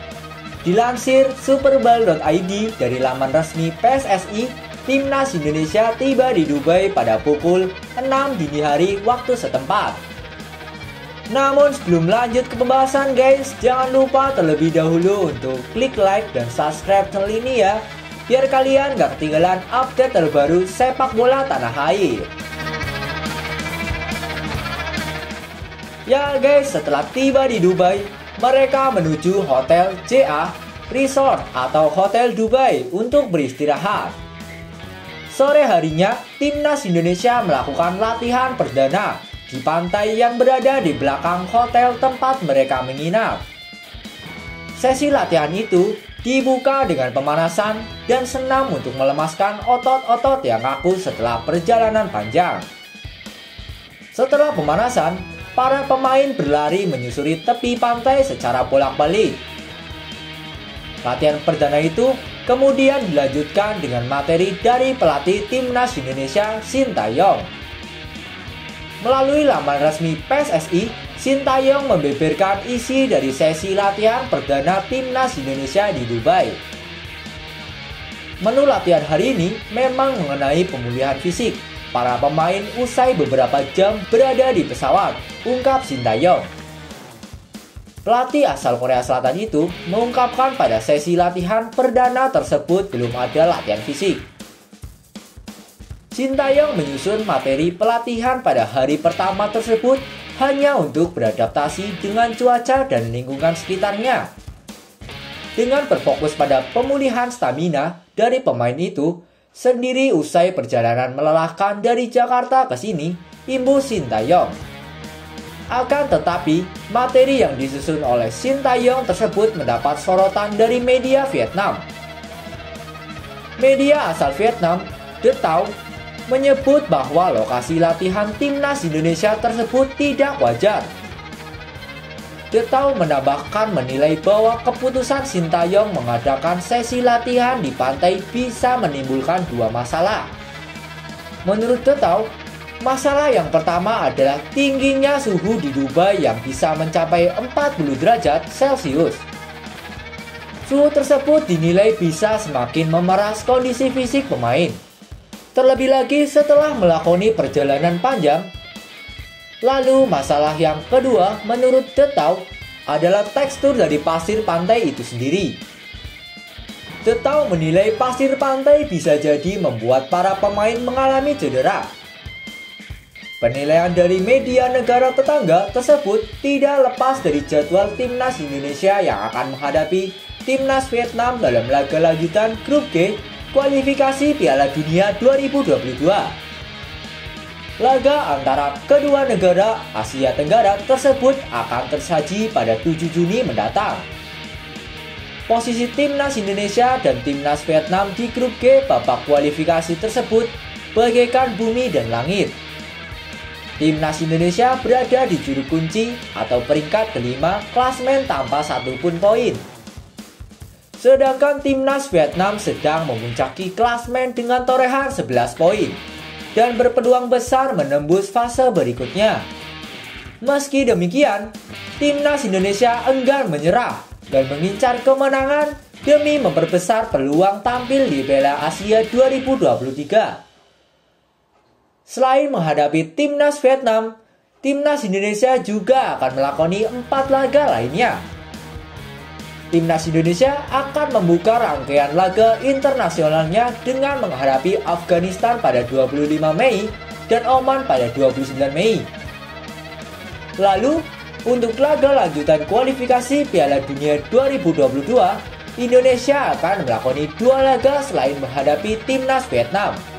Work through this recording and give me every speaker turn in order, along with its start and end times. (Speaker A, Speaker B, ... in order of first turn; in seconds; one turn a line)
Speaker A: 0.6-10.0
Speaker A: 11.3-22.3
Speaker A: 26.1-34.1
Speaker A: 35.3-43.4
Speaker A: 44.7-52.7
Speaker A: 54.1-59.4
Speaker A: 61.0-67.5
Speaker A: 69.0-76.6
Speaker A: 78.4-86.5
Speaker A: 88.0-94.3
Speaker A: 96.1-104.3
Speaker A: 105.5-114.6
Speaker A: 115.7-121.8
Speaker A: 123.6-125.8
Speaker A: 126.3-130.9
Speaker A: 132.5-140.3
Speaker A: 141.4-149.2
Speaker A: 150.7-154.8
Speaker A: 155.5-158.5
Speaker A: 159.6-165.6
Speaker A: 167.0-171.9
Speaker A: 173.4-186.4
Speaker A: 187.8-194.1
Speaker A: 195.5-202.6
Speaker A: 203.8-209.6
Speaker A: 211.0-216.0
Speaker A: 216.5-219.5
Speaker A: 220.4-230.4
Speaker A: 232.1-238.2
Speaker A: 239.7-249.1
Speaker A: 250.6-260.0